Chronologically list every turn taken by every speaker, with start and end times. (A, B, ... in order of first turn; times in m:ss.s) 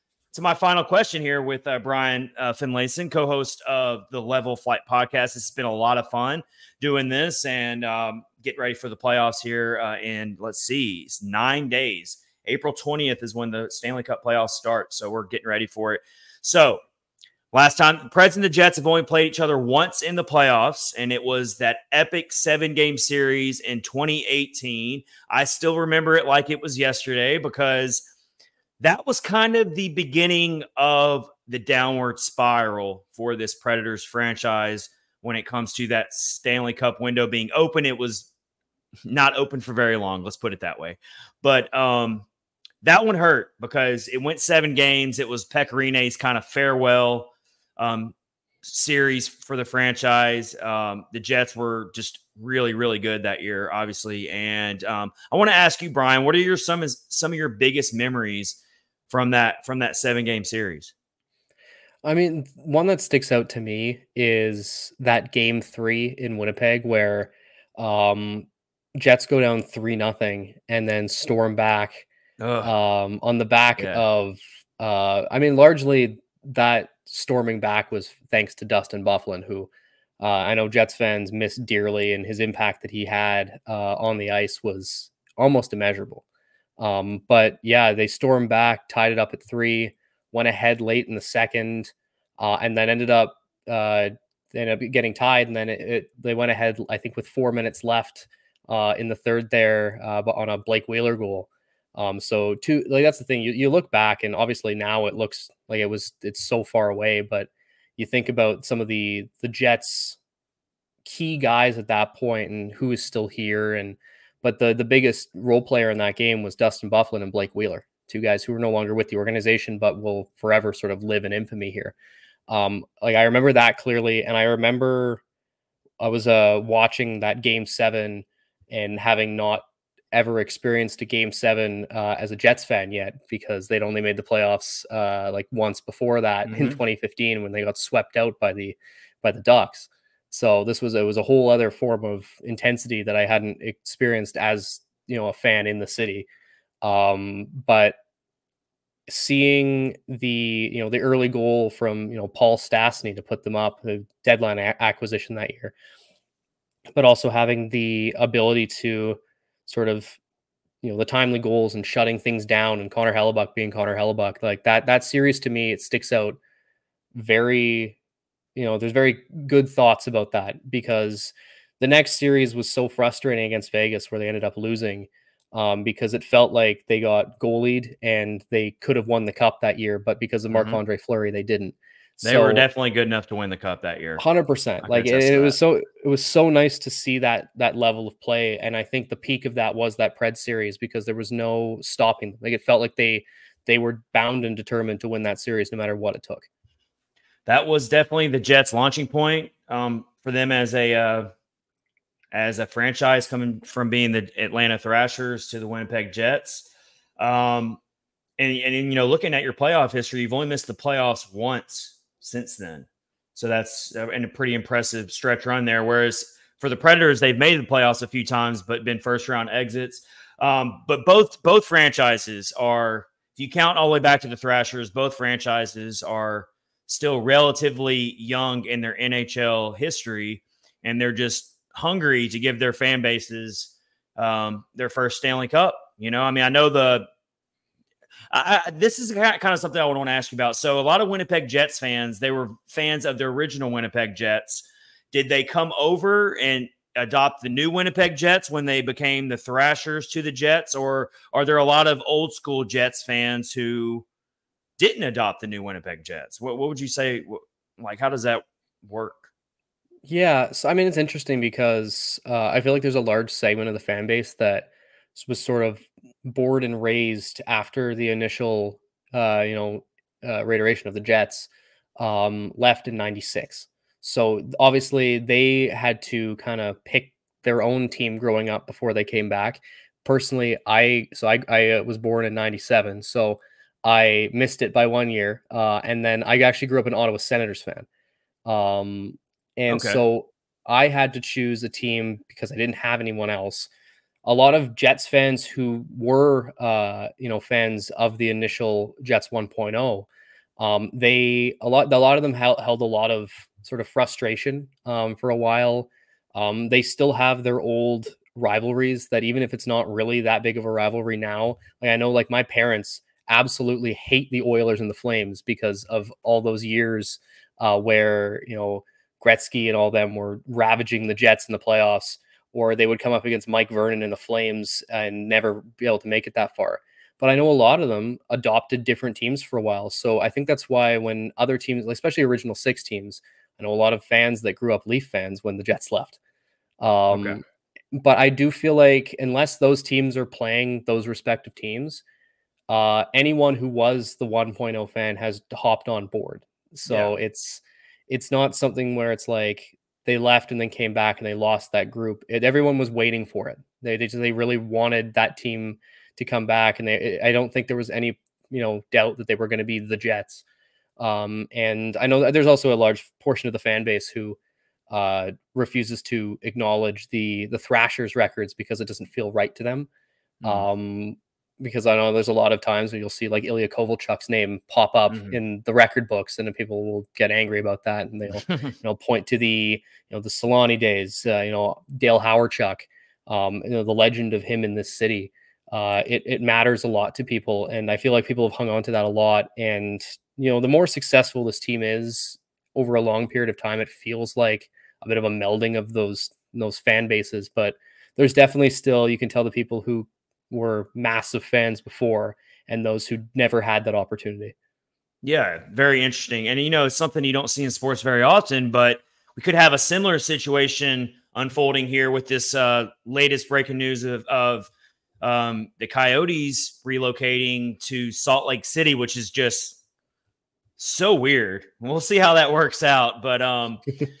0:00.3-0:16.8 A
0:17.5-0:28.1 A
0:28.8-0:38.3 A
0:39.1-0:42.2 A
0:42.8-1:00.9 A
1:02.0-1:12.0 B
1:12.4-1:12.7 A
1:12.6-1:26.2 B
1:13.8-1:14.0 A
1:26.8-1:50.2 B
1:51.0-2:01.9 B
2:02.5-2:05.2 B
2:06.0-2:26.3 B
2:16.4-2:16.8 A
2:26.8-2:28.0 B
2:29.1-2:35.7 B
2:36.9-2:40.2 B
2:40.8-2:46.4 B
2:47.1-2:48.0 B
2:48.6-3:02.6 B
3:00.5-3:00.8 A
3:02.2-3:04.2 A
3:04.2-3:16.5 B
3:04.8-3:05.6 A
3:17.4-3:21.3 A
3:22.3-3:27.8 A
3:28.4-3:57.1 A
3:58.3-4:14.0 A
4:14.8-4:19.3 A
4:20.0-4:47.9 B
4:48.4-4:53.7 B
4:49.7-4:50.0 A
4:54.2-5:36.2 B
5:36.8-5:37.4 B
5:37.1-5:37.4 A
5:37.9-5:42.0 B
5:42.7-6:00.4 B
5:46.9-5:47.1 A
6:01.0-6:04.4 B
6:04.9-6:09.9 B
6:10.4-6:10.7 A
6:10.4-6:44.5 B
6:15.1-6:15.4 A
6:18.4-6:18.7 A
6:45.2-6:54.7 A
6:55.2-6:59.8 A
7:00.8-7:03.8 A